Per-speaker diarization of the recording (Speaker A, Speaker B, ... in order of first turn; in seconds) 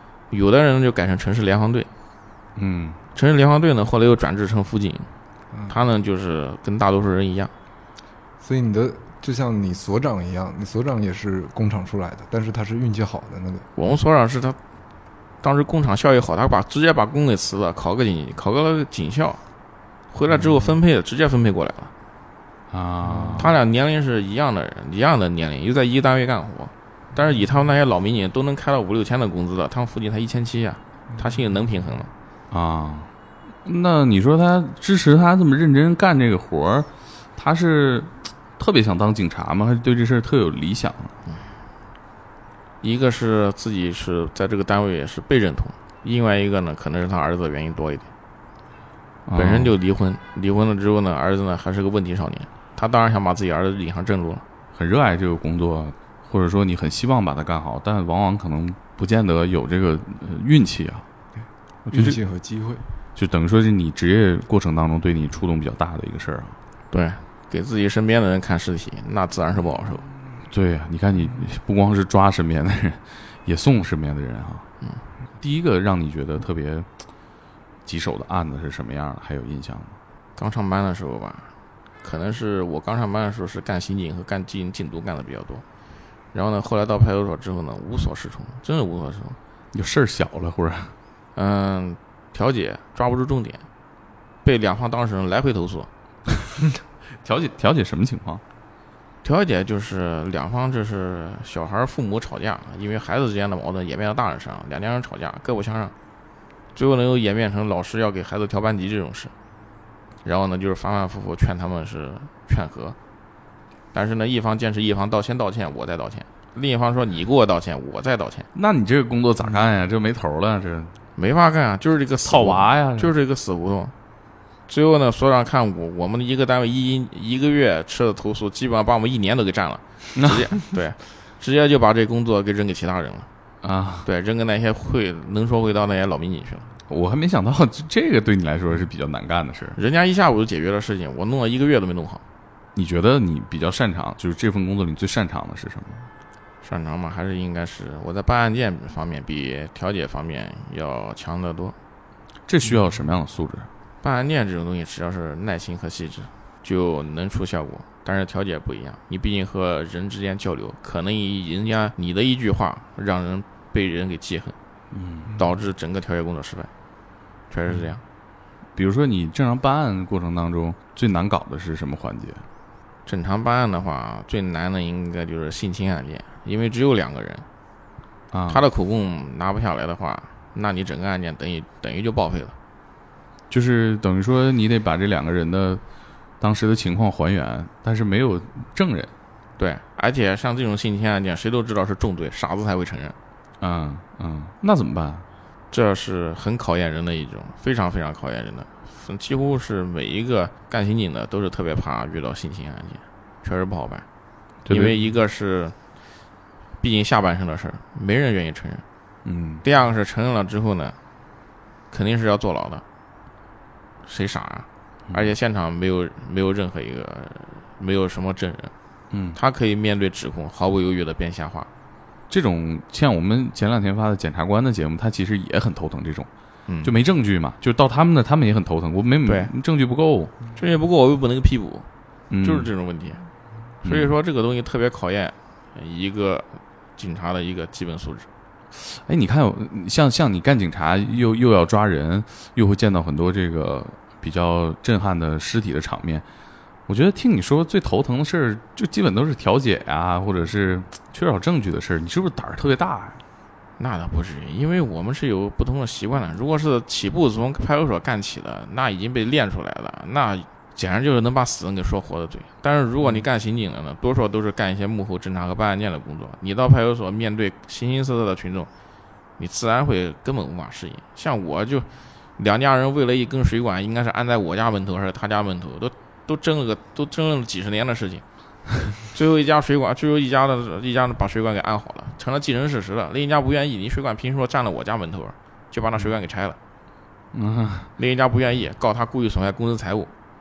Speaker A: 0.3-1.9, 3.1-5.1, 5.7-7.5, 13.8-14.6, 15.4-19.4, 20.1-21.9, 23.4-32.1, 42.8-48.1, 49.4-54.4, 66.9-70.1, 80.4-85.7, 86.3-89.4, 91.4-93.7, 94.4-95.9, 99.2-105.9, 106.8-109.3, 110.2-113.0, 113.9-118.5, 121.2-123.9, 124.7-133.3, 134.1-136.7, 139.8-142.2, 146.6-151.8, 154.0-164.6, 165.4-166.7, 167.5-168.0, 173.1-177.4, 178.5-182.6, 189.6-193.2, 195.7-204.1, 204.7-205.8, 206.8-208.8, 209.6-211.0, 211.9-212.8, 214.1-218.7, 219.3-221.7, 226.7-226.9, 229.2-229.5, 230.6-231.9, 232.4-233.2, 233.8-238.3, 253.8-268.7, 269.4-278.2, 278.9-286.6, 288.0-290.1
Speaker B: 2.6-3.0, 22.7-23.6, 32.5-33.1, 33.6-41.1, 49.3-49.7, 54.7-61.1, 61.9-62.2, 63.2-66.6, 70.5-74.7, 75.4-76.9, 77.8-80.0, 89.7-91.0, 97.2-98.4, 118.5-121.0, 122.2-123.1, 130.2-130.6, 133.6-134.1, 136.9-139.8, 142.8-146.1, 152.5-153.7, 164.9-165.3, 168.8-172.5, 178.3-178.6, 183.5-185.8, 186.4-189.1, 193.6-195.3, 204.7-204.9, 209.2-209.6, 219.1-219.4, 222.3-226.3, 226.8-230.3, 232.3-232.7, 233.8-234.1, 238.7-246.2, 246.9-253.2, 287.3-287.9
Speaker C: 8.4-13.7, 23.0-23.5, 61.4-62.8